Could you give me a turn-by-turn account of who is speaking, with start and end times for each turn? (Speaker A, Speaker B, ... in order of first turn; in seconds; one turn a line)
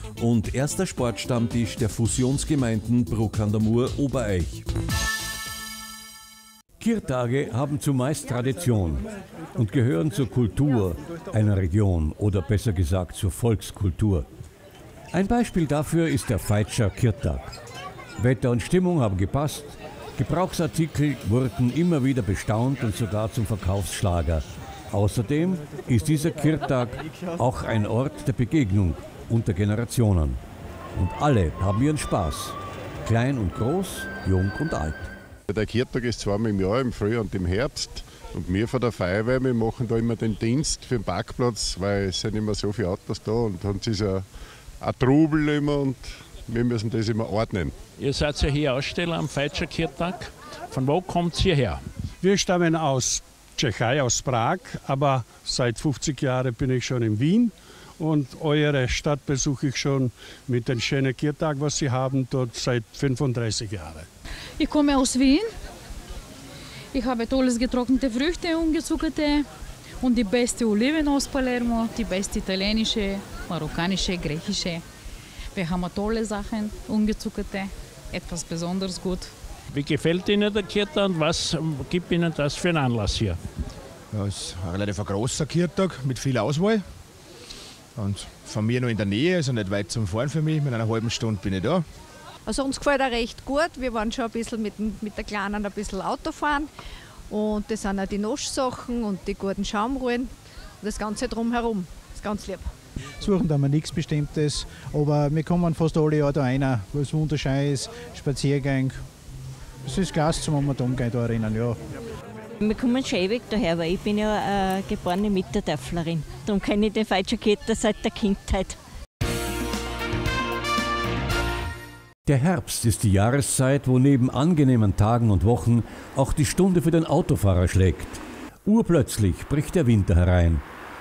Speaker A: 0.2-4.7
Speaker B: 6.8-14.3
Speaker B: 15.1-17.5
Speaker B: 18.2-30.4
Speaker B: 31.0-35.1
Speaker C: 35.5-44.3
Speaker C: 44.8-47.8
Speaker D: 48.0-51.9
Speaker E: 52.2-64.1
Speaker F: 64.6-65.5
Speaker F: 66.9-69.5
Speaker F: 70.0-74.8
Speaker F: 75.5-79.3
Speaker D: 79.7-83.4
Speaker G: 84.1-86.8
Speaker G: 88.0-91.8
Speaker H: 92.5-96.7
Speaker H: 97.3-102.7
Speaker I: 103.2-109.0
Speaker I: 109.9-111.8
Speaker J: 112.6-118.8
Speaker B: 122.3-130.6